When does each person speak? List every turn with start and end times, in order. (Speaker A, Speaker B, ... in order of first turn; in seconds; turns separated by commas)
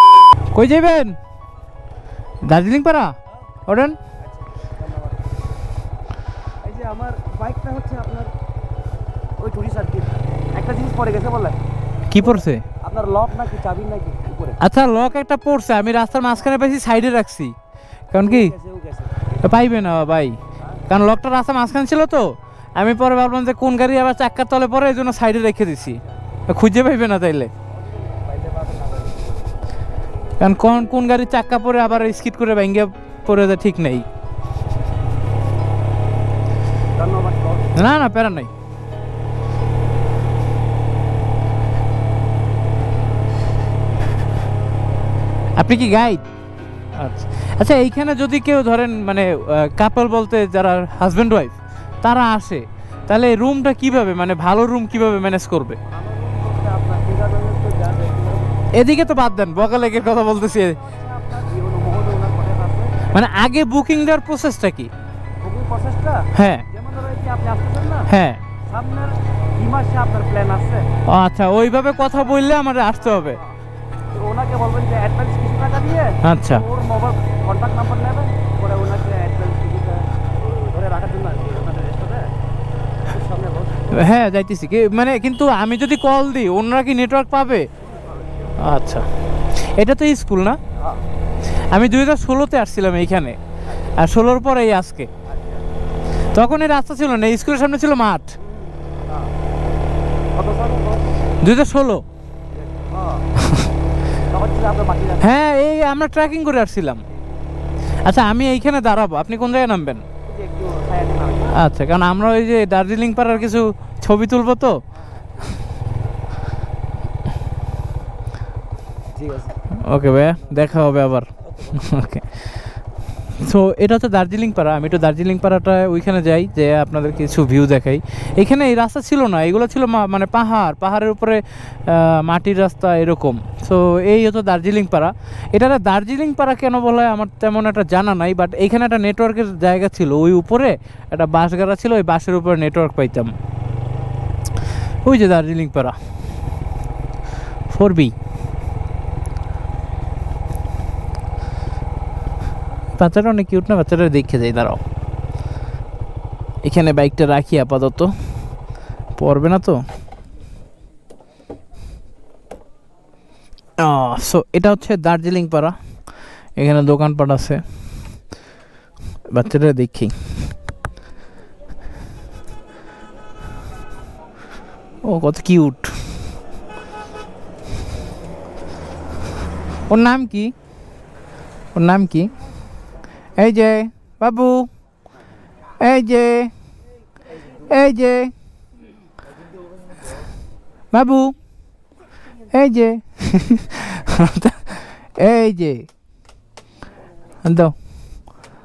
Speaker A: 0.5-1.1, Speaker A: 2.4-3.1, Speaker A: 3.7-4.0, Speaker B: 4.2-5.4, Speaker B: 6.6-8.3, Speaker B: 9.4-11.6, Speaker A: 12.1-12.6, Speaker B: 12.2-14.6, Speaker A: 14.6-17.5, Speaker A: 18.1-18.5, Speaker B: 18.2-19.5, Speaker A: 19.4-27.5, Speaker B: 25.9-26.4, Speaker B: 27.7-29.6, Speaker A: 30.4-34.1, Speaker B: 37.0-38.0, Speaker A: 37.8-38.5, Speaker A: 45.6-46.2, Speaker A: 47.0-55.8, Speaker B: 55.9-58.7, Speaker A: 58.7-60.8, Speaker B: 60.1-63.0, Speaker A: 63.1-64.9, Speaker B: 65.4-68.1, Speaker A: 66.3-66.6, Speaker A: 68.1-68.4, Speaker B: 68.6-70.9, Speaker A: 71.1-73.4, Speaker B: 73.0-73.6, Speaker B: 74.1-82.3, Speaker A: 76.2-76.6, Speaker B: 83.1-84.1, Speaker A: 83.9-87.7, Speaker B: 87.8-88.6, Speaker A: 88.6-89.0, Speaker A: 89.6-90.6, Speaker B: 90.8-91.0, Speaker A: 91.7-93.4, Speaker A: 94.0-95.1, Speaker B: 95.3-95.6, Speaker A: 96.3-98.3, Speaker B: 98.4-99.3, Speaker B: 100.3-101.2, Speaker A: 101.4-102.0, Speaker B: 102.5-103.3, Speaker A: 103.4-103.7, Speaker B: 104.2-105.3, Speaker A: 105.2-107.0, Speaker A: 108.0-110.0, Speaker B: 110.2-111.6, Speaker A: 111.5-114.8, Speaker B: 114.9-115.7, Speaker B: 119.2-119.6, Speaker A: 119.8-122.3, Speaker B: 120.3-122.1, Speaker A: 123.4-143.3, Speaker A: 145.0-145.9, Speaker A: 147.7-148.1, Speaker A: 153.0-154.8, Speaker A: 156.6-158.1, Speaker A: 159.2-159.8, Speaker A: 163.8-165.8, Speaker A: 166.6-167.6, Speaker A: 169.3-170.1, Speaker A: 175.0-175.9, Speaker A: 179.9-180.5, Speaker A: 181.7-182.3, Speaker A: 183.3-184.7, Speaker A: 185.8-186.5, Speaker A: 187.5-188.3, Speaker A: 190.9-191.3, Speaker A: 192.5-195.9, Speaker A: 197.4-197.7